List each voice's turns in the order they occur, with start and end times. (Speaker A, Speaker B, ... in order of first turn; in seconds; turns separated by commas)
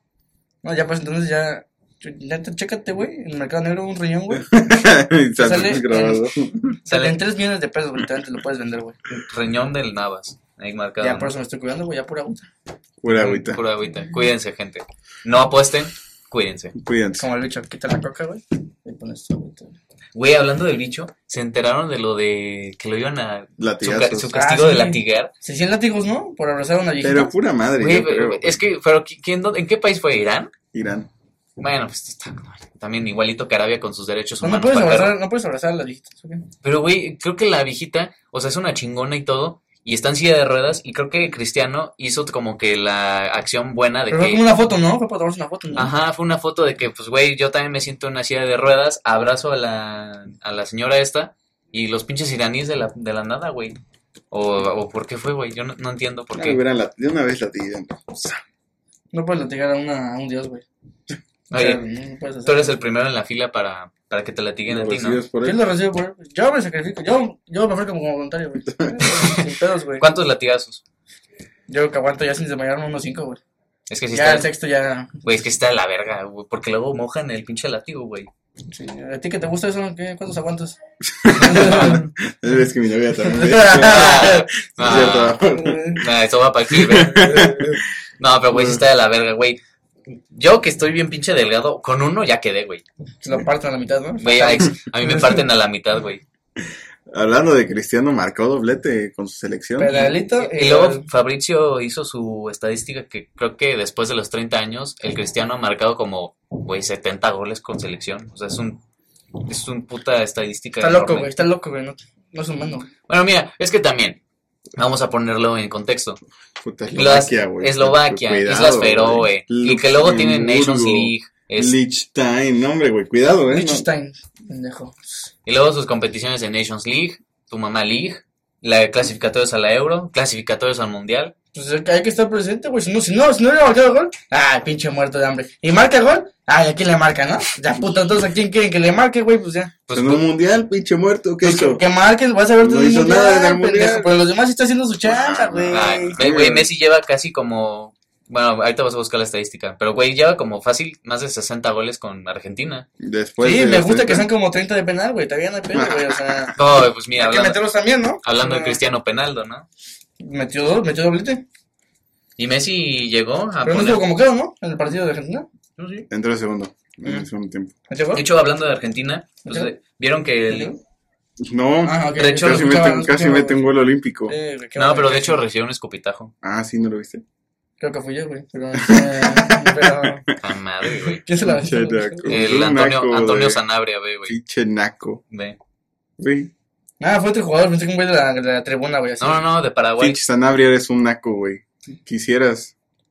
Speaker A: 0.6-4.5, Speaker B: 4.4-6.8, Speaker A: 5.4-6.3, Speaker A: 6.9-9.0, Speaker C: 6.9-7.2, Speaker C: 9.1-11.3, Speaker A: 11.0-12.5, Speaker B: 13.0-13.6, Speaker C: 13.1-16.8, Speaker B: 16.8-17.3, Speaker A: 17.2-19.7, Speaker C: 20.1-25.3, Speaker B: 23.6-24.3, Speaker A: 24.3-27.3, Speaker B: 27.0-28.6, Speaker C: 27.8-30.5, Speaker B: 30.7-31.1, Speaker C: 31.6-35.2, Speaker A: 34.4-36.5, Speaker C: 36.6-44.5, Speaker A: 44.1-45.9, Speaker C: 45.8-53.8, Speaker C: 54.3-56.6, Speaker B: 56.3-58.4, Speaker A: 59.1-60.6, Speaker C: 61.5-61.8, Speaker A: 61.5-62.8, Speaker C: 62.5-65.2, Speaker B: 64.7-65.6, Speaker A: 65.4-70.1, Speaker B: 68.7-69.1, Speaker C: 69.0-69.4, Speaker C: 70.0-70.8, Speaker A: 71.7-73.4, Speaker C: 73.9-74.5, Speaker A: 74.1-75.1, Speaker C: 75.2-78.3, Speaker A: 78.7-80.8, Speaker B: 81.2-86.0, Speaker A: 81.3-82.1, Speaker C: 81.3-82.0, Speaker A: 83.2-86.0, Speaker C: 83.7-85.4, Speaker C: 86.0-87.5, Speaker B: 86.7-87.8, Speaker A: 87.1-87.8, Speaker C: 88.2-89.6, Speaker B: 88.5-88.8, Speaker C: 90.3-92.8, Speaker A: 93.2-95.4, Speaker C: 94.2-96.2, Speaker B: 97.1-100.1, Speaker A: 99.8-101.1, Speaker C: 99.9-108.8, Speaker C: 109.4-111.3, Speaker A: 110.8-112.9, Speaker C: 113.1-114.2, Speaker C: 114.8-116.2, Speaker B: 116.6-123.9, Speaker C: 116.9-121.8, Speaker A: 123.5-125.3, Speaker C: 125.5-131.3, Speaker A: 131.5-139.7, Speaker C: 139.9-140.2, Speaker B: 139.9-141.8, Speaker A: 141.4-146.2, Speaker B: 142.6-144.1, Speaker B: 145.0-146.7, Speaker C: 145.7-152.9, Speaker B: 153.0-154.3, Speaker A: 153.4-158.8, Speaker B: 155.7-156.5, Speaker C: 156.6-157.6, Speaker C: 158.2-159.7, Speaker A: 160.2-161.4, Speaker C: 162.4-164.1, Speaker A: 163.7-165.5, Speaker C: 165.8-166.1, Speaker B: 166.1-167.8, Speaker A: 167.9-168.2, Speaker C: 168.1-170.8, Speaker A: 170.5-170.8, Speaker B: 171.4-174.3, Speaker A: 171.8-173.6, Speaker C: 172.2-172.9, Speaker A: 174.3-175.4, Speaker C: 174.8-176.3, Speaker B: 176.4-177.2, Speaker A: 177.8-180.3, Speaker B: 178.8-180.2, Speaker C: 180.4-181.2, Speaker A: 181.1-182.5, Speaker B: 181.4-183.6, Speaker C: 182.3-184.4, Speaker B: 184.3-185.2, Speaker C: 185.3-185.6, Speaker B: 186.2-186.5, Speaker A: 187.0-189.4, Speaker C: 189.2-190.2, Speaker B: 190.0-192.8